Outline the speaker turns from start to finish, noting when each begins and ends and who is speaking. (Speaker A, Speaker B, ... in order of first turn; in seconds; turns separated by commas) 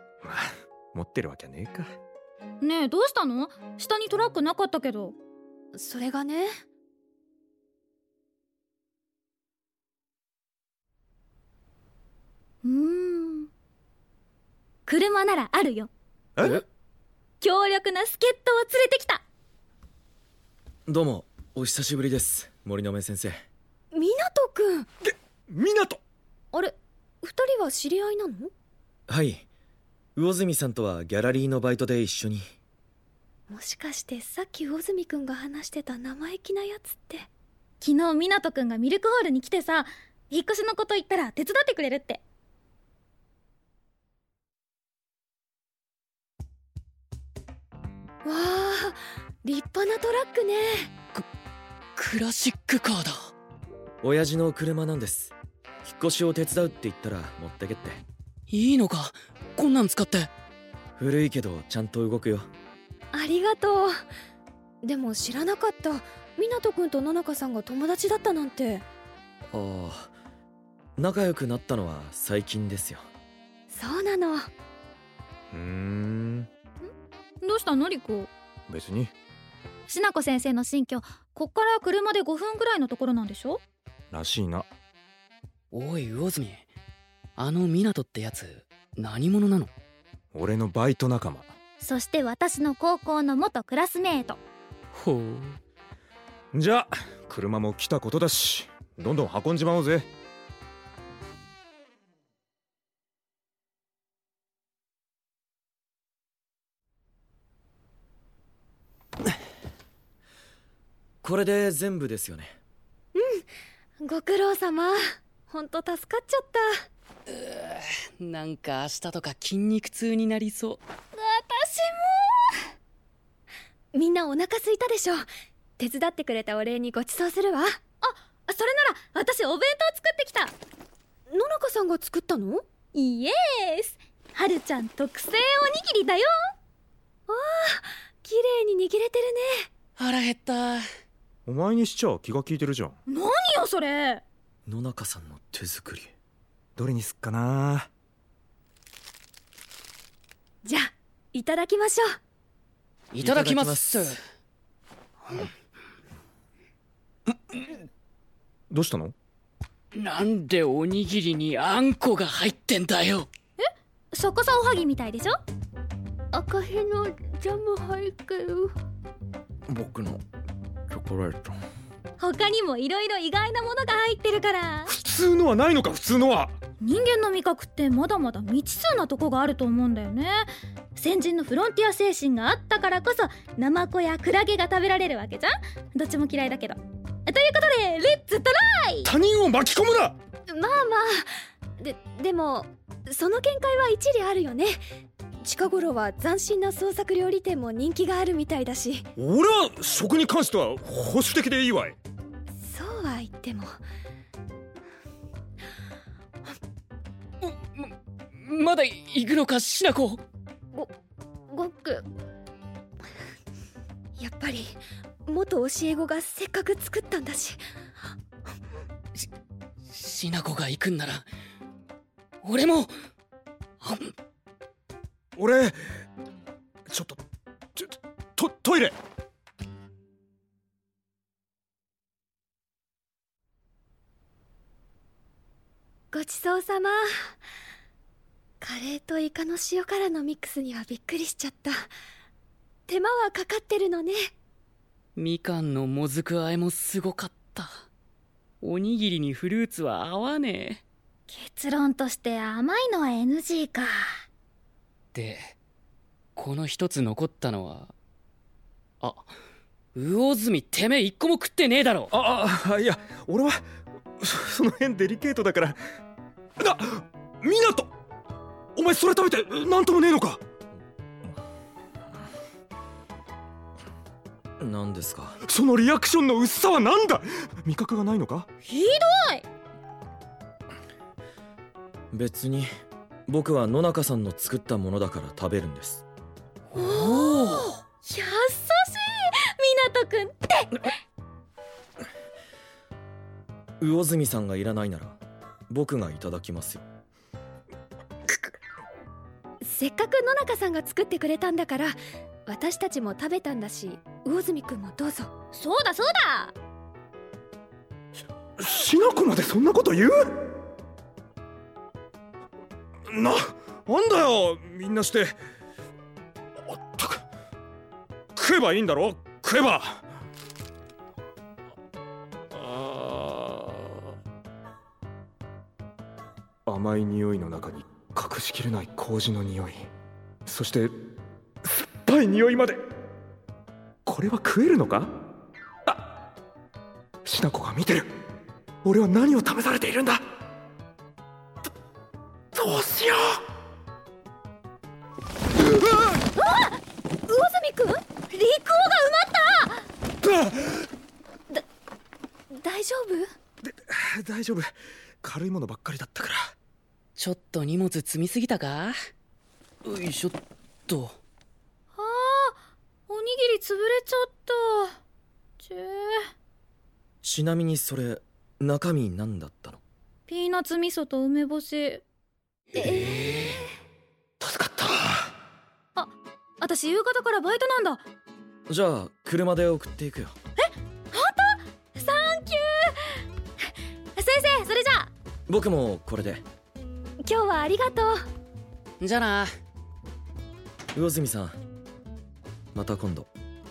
Speaker A: 0.2-1.9, Speaker B: 2.6-5.1, Speaker C: 5.7-6.5, Speaker B: 12.6-13.5, Speaker B: 14.8-15.9, Speaker A: 16.4-16.6, Speaker B: 17.4-19.2, Speaker D: 20.9-23.4, Speaker C: 23.9-24.9, Speaker A: 25.1-26.0, Speaker C: 26.5-28.5, Speaker D: 29.1-29.4, Speaker D: 30.1-32.4, Speaker C: 33.5-37.3, Speaker B: 37.8-42.2, Speaker C: 48.2-50.9, Speaker E: 52.0-53.3, Speaker D: 54.0-58.0, Speaker E: 58.5-60.3, Speaker D: 61.0-62.5, Speaker C: 63.1-63.9, Speaker C: 64.8-68.8, Speaker D: 69.5-70.1, Speaker D: 71.0-73.0, Speaker C: 73.7-74.5, Speaker A: 75.5-76.5, Speaker B: 77.4-78.3, Speaker A: 78.7-79.1, Speaker B: 79.9-83.6, Speaker A: 84.1-84.7, Speaker E: 85.7-86.7, Speaker E: 87.4-89.7, Speaker A: 90.3-91.5, Speaker B: 91.8-94.4, Speaker E: 94.9-95.6, Speaker A: 96.5-100.1, Speaker D: 111.2-112.5, Speaker C: 113.1-113.5, Speaker C: 114.0-116.8, Speaker E: 117.3-120.8, Speaker B: 121.1-122.6, Speaker C: 123.9-125.2, Speaker C: 125.8-127.8, Speaker B: 128.0-130.5, Speaker C: 131.3-132.6, Speaker B: 132.9-136.3, Speaker C: 137.3-139.7, Speaker E: 140.0-140.8, Speaker A: 141.4-143.0, Speaker B: 143.1-144.2, Speaker D: 144.7-146.1, Speaker A: 146.8-147.9, Speaker C: 150.6-152.1, Speaker E: 153.1-154.2, Speaker D: 153.2-154.2, Speaker A: 158.7-159.1, Speaker E: 159.9-163.3, Speaker B: 163.6-165.3, Speaker C: 166.3-168.7, Speaker D: 169.7-170.2, Speaker D: 170.9-171.5, Speaker B: 172.2-174.9, Speaker A: 174.9-176.6, Speaker B: 176.8-180.4, Speaker B: 180.9-189.1, Speaker A: 189.0-190.2, Speaker C: 190.5-194.8, Speaker C: 195.4-199.1, Speaker A: 199.2-202.0, Speaker C: 202.6-203.7, Speaker E: 207.4-210.2, Speaker C: 211.5-212.1, Speaker C: 214.2-217.6, Speaker E: 219.9-221.3, Speaker E: 222.4-222.9, Speaker E: 223.8-224.1, Speaker A: 225.3-226.0, Speaker A: 226.9-227.2, Speaker A: 227.8-228.9, Speaker C: 236.1-237.3, Speaker C: 238.6-241.9, Speaker C: 242.9-244.3, Speaker E: 245.2-247.8, Speaker E: 248.6-250.8, Speaker B: 251.3-254.0, Speaker E: 255.1-255.5, Speaker E: 256.4-257.9, Speaker E: 259.0-259.3, Speaker E: 259.9-262.1, Speaker A: 262.1-263.6, Speaker A: 264.2-265.8, Speaker A: 266.6-267.9, Speaker A: 268.8-270.4, Speaker D: 274.6-275.4, Speaker A: 275.5-278.5, Speaker B: 278.6-279.4, Speaker D: 282.1-282.7, Speaker D: 283.3-286.0, Speaker E: 286.7-287.7, Speaker B: 287.0-287.4, Speaker B: 287.9-290.9, Speaker D: 293.8-295.2, Speaker D: 295.7-296.8, Speaker C: 299.6-305.3, Speaker B: 305.5-306.5, Speaker A: 308.6-310.3, Speaker A: 313.1-315.4, Speaker A: 316.7-317.2, Speaker A: 318.3-320.0, Speaker A: 322.5-324.0, Speaker A: 326.6-329.9, Speaker A: 330.4-330.9, Speaker A: 331.6-332.8, Speaker A: 334.1-335.2, Speaker A: 337.2-338.1, Speaker A: 338.8-340.2, Speaker A: 342.5-343.4, Speaker C: 346.4-346.7, Speaker C: 347.3-348.0, Speaker B: 348.3-349.8, Speaker A: 350.2-350.9, Speaker C: 352.5-353.3, Speaker A: 353.6-356.5, Speaker E: 357.1-358.9, Speaker E: 359.8-361.2, Speaker B: 361.9-362.6, Speaker B: 363.1-364.9, Speaker B: 365.6-366.3, Speaker D: 367.2-369.8, Speaker B: 370.3-372.0, Speaker C: 372.8-373.6, Speaker D: 374.5-375.0, Speaker B: 375.9-378.0, Speaker D: 378.7-380.3, Speaker B: 381.1-383.2, Speaker B: 384.1-385.1, Speaker D: 385.5-386.4, Speaker C: 387.2-388.2, Speaker E: 389.0-389.5, Speaker D: 390.9-391.6, Speaker D: 392.7-393.3